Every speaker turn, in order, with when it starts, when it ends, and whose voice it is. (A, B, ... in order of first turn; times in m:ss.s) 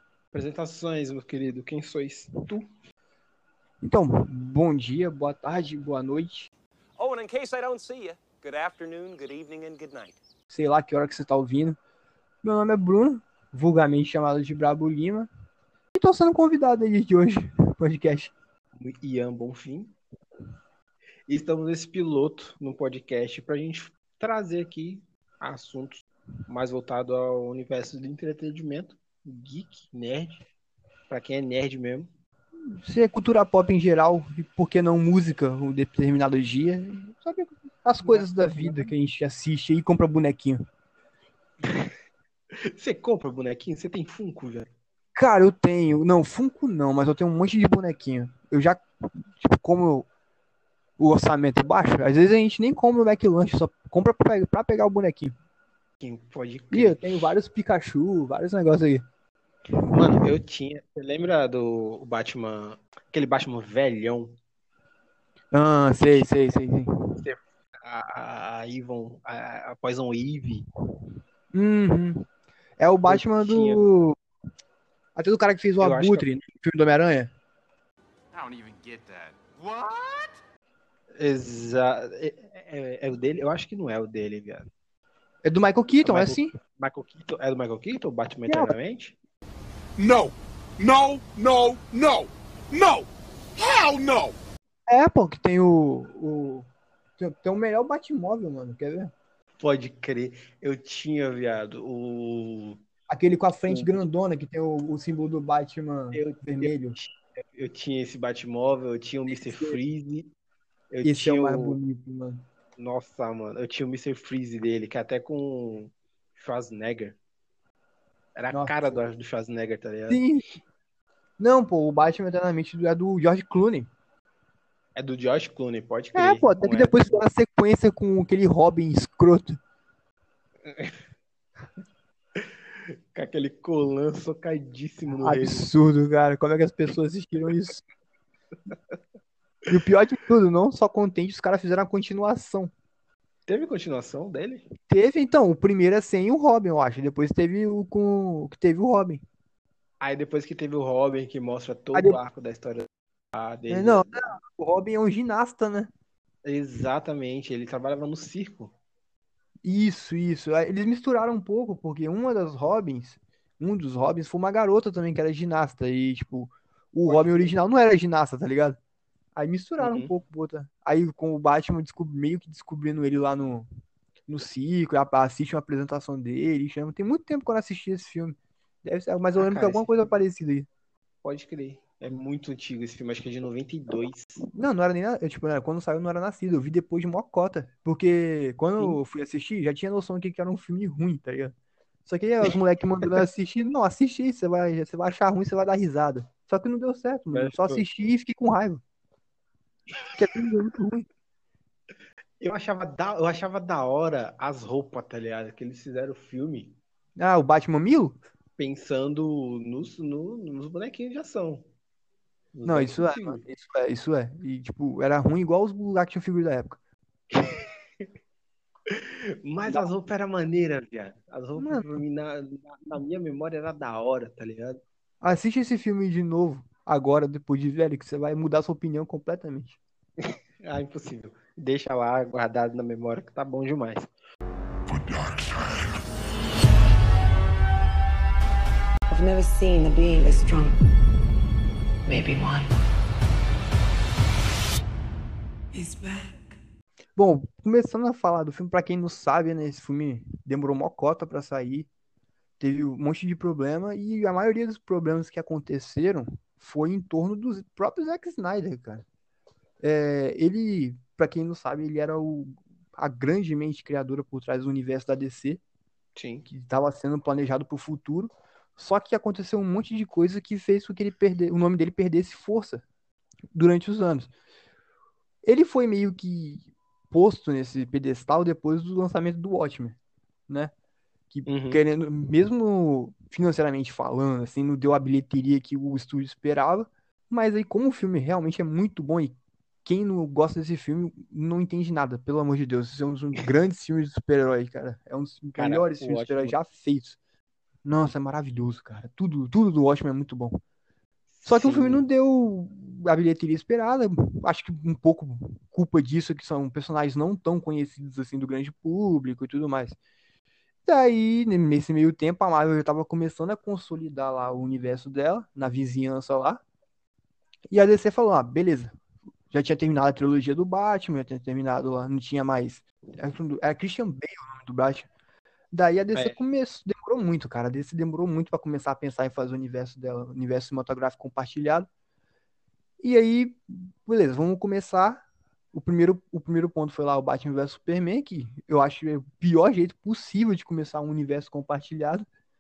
0:00.3-0:02.7 A
0:03.8-0:06.5 B
0:07.0-0:10.2 C
0:10.5-0:11.8 B
0:12.4-0:15.3 B
0:16.0-0:18.3 B
0:18.8-0:20.0 A
0:21.3-0:30.4 A
0:31.1-0:32.1 A
0:32.6-0:40.6 B
0:38.0-0:38.9 A
0:41.6-0:41.9 A
0:42.5-0:44.7 A
0:45.2-0:50.1 B
0:51.0-0:55.3 B
0:56.0-0:57.0 A
0:56.7-0:59.0 B
0:59.8-1:00.2 B
0:59.9-1:04.4 A
1:05.5-1:07.2 B
1:07.2-1:10.7 A
1:11.5-1:12.2 B
1:12.8-1:14.2 B
1:13.1-1:13.8 A
1:15.2-1:17.3 B
1:15.8-1:16.3 A
1:18.3-1:20.3 D
1:21.2-1:24.7 A
1:25.4-1:26.5 B
1:26.0-1:29.2 A
1:28.5-1:28.8 B
1:30.0-1:34.4 D
1:34.9-1:36.7 B
1:37.2-1:39.1 B
1:39.6-1:42.8 A
1:43.1-1:47.0 B
1:43.7-1:44.0 A
1:46.1-1:50.3 A
1:49.3-1:49.8 B
1:50.9-1:51.8 A
1:51.0-1:52.4 B
1:52.8-1:57.2 A
1:58.4-2:00.2 A
1:58.5-1:59.0 B
2:00.1-2:00.4 B
2:01.4-2:03.9 B
2:05.0-2:07.2 A
2:06.2-2:09.6 B
2:10.6-2:11.0 A
2:12.4-2:15.7 A
2:15.2-2:17.8 B
2:19.7-2:22.7 B
2:23.5-2:24.7 A
2:24.9-2:29.2 B
2:30.0-2:34.1 A
2:31.9-2:32.2 B
2:33.7-2:35.9 B
2:36.4-2:38.7 A
2:39.6-2:48.8 B
2:47.1-2:47.5 A
2:49.4-2:53.7 B
2:49.8-2:50.1 A
2:54.3-3:00.7 B
2:59.4-3:00.1 A
3:01.2-3:04.4 A
3:04.5-3:11.5 B
3:12.1-3:18.8 B
3:17.3-3:17.8 A
3:20.2-3:21.1 B
3:22.4-3:26.8 A
3:27.2-3:28.2 B
3:28.6-3:31.7 A
3:32.5-3:33.4 A
3:32.7-3:36.8 B
3:37.3-3:38.1 A
3:38.9-3:44.8 A
3:41.6-3:42.0 B
3:45.2-3:49.8 B
3:50.2-3:54.1 A
3:59.1-4:00.8 E
4:02.1-4:02.6 E
4:05.7-4:06.4 E
4:07.2-4:11.9 B
4:12.6-4:19.0 B
4:19.8-4:25.6 B
4:26.2-4:26.5 A
4:26.5-4:32.8 B
4:33.5-4:34.3 B
4:35.4-4:40.0 B
4:41.3-4:57.2 B
4:41.5-4:41.8 A
4:55.6-4:56.5 A
4:57.8-5:00.6 B
5:01.3-5:02.0 A
5:01.4-5:10.0 B
5:10.9-5:16.6 B
5:17.7-5:19.0 B
5:19.5-5:25.1 B
5:25.7-5:31.9 B
5:33.0-5:42.3 B